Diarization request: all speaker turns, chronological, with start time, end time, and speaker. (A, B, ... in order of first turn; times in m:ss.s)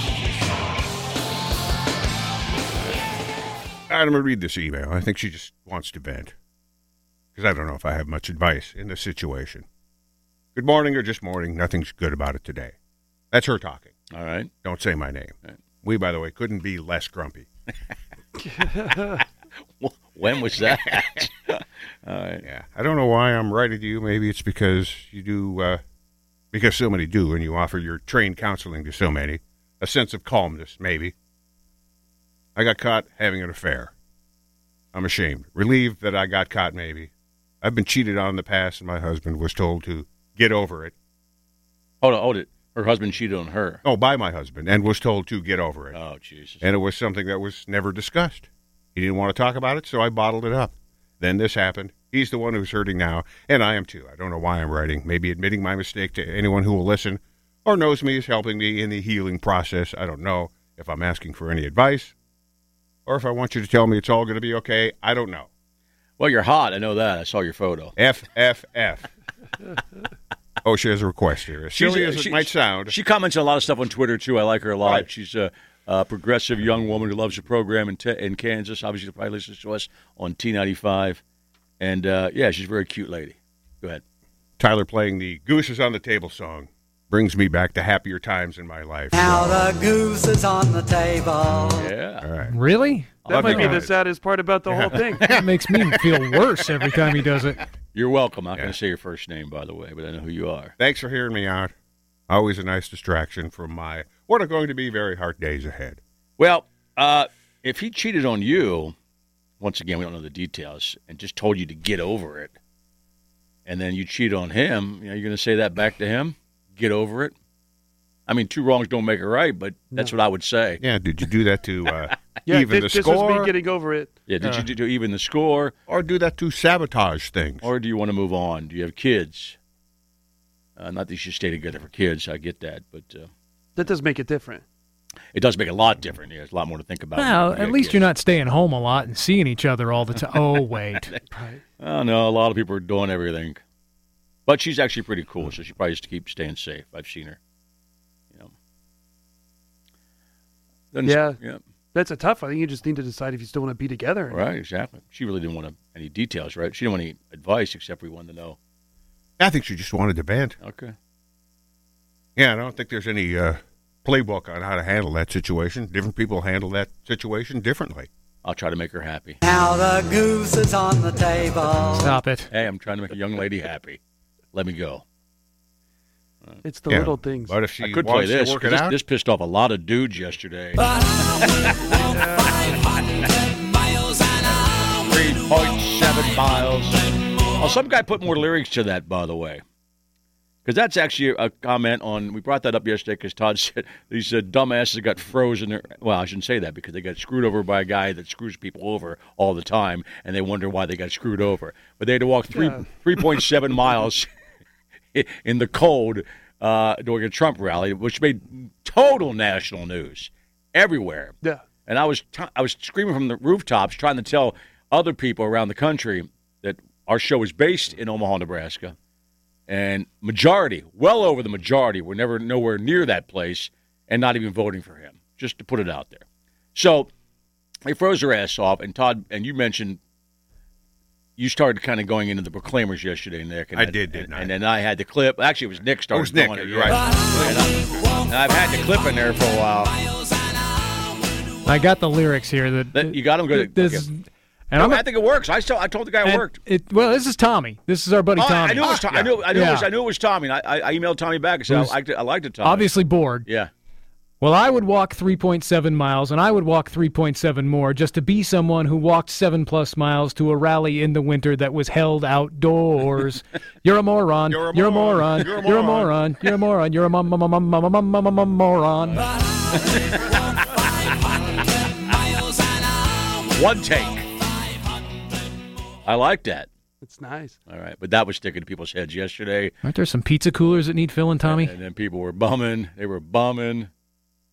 0:03.9-0:06.3 A
0:07.4-0:09.6 A
0:10.6-0:12.8 A
0:13.3-0:13.9 A
0:14.1-0:14.5 B
0:14.6-0:17.5 A
0:18.4-0:19.2 C
0:19.8-0:22.4 B
0:22.4-0:25.8 A
0:26.5-0:31.1 A
0:32.6-0:33.9 A
0:34.9-0:40.9 A
0:42.0-0:43.8 B
0:43.8-0:46.0 A
0:45.9-0:46.7 B
0:46.6-1:02.2 A
1:03.1-1:05.5 A
1:06.2-1:07.9 B
1:08.0-1:09.1 A
1:10.6-1:13.0 A
1:11.8-1:21.2 B
1:14.8-1:15.1 A
1:21.8-1:24.0 B
1:24.6-1:29.8 A
1:29.8-1:31.6 D
1:29.9-1:31.0 C
1:31.7-1:32.3 B
1:32.2-1:32.6 A
1:32.4-1:33.8 E
1:33.3-1:33.5 B
1:33.3-1:35.3 C
1:33.3-1:34.0 A
1:34.7-1:35.5 A
1:35.0-1:35.3 B
1:35.2-1:37.6 E
1:37.9-1:40.7 B
1:40.8-1:41.7 A
1:42.3-1:46.0 A
1:46.4-1:48.9 B
1:49.6-1:52.5 B
1:53.7-1:57.3 B
1:58.3-2:00.8 B
2:00.8-2:03.5 A
2:02.1-2:02.4 B
2:02.5-2:04.1 C
2:04.3-2:05.7 B
2:04.4-2:04.7 A
2:05.9-2:07.7 A
2:07.6-2:09.6 B
2:10.8-2:13.3 B
2:13.8-2:14.6 C
2:15.3-2:18.0 B
2:17.2-2:21.1 E
2:21.3-2:21.6 C
2:21.8-2:23.6 B
2:24.5-2:27.4 B
2:30.9-2:31.6 B
2:31.0-2:31.4 C
2:31.9-2:34.4 C
2:34.3-2:38.6 B
2:39.4-2:40.6 A
2:40.6-2:40.9 B
2:42.4-2:48.1 A
2:48.4-2:49.4 B
2:49.5-2:51.9 D
2:51.9-2:52.5 E
2:52.5-2:54.0 B
2:54.5-2:55.0 B
2:56.6-2:57.6 C
2:56.9-2:59.0 A
2:57.8-3:02.0 B
3:01.9-3:02.7 C
3:04.4-3:09.6 B
3:10.6-3:24.3 B
3:22.5-3:22.8 C
3:25.1-3:38.9 B
3:39.7-3:46.2 B
3:46.8-3:47.1 B
3:47.8-3:50.0 B
3:51.4-4:00.0 B
3:53.8-3:54.5 A
3:56.1-3:57.6 A
4:01.6-4:05.1 E
4:02.9-4:04.1 B
4:04.8-4:06.6 B
4:06.2-4:09.9 E
4:08.4-4:13.7 B
4:08.9-4:09.3 A
4:11.7-4:12.0 E
4:12.6-4:13.5 E
4:14.4-4:29.3 E
4:24.5-4:26.1 A
4:29.1-4:30.8 B
4:33.5-4:34.3 B
4:36.0-4:36.7 B
4:37.0-4:37.6 C
4:37.7-4:39.8 B
4:39.8-4:41.8 E
4:41.4-4:43.9 B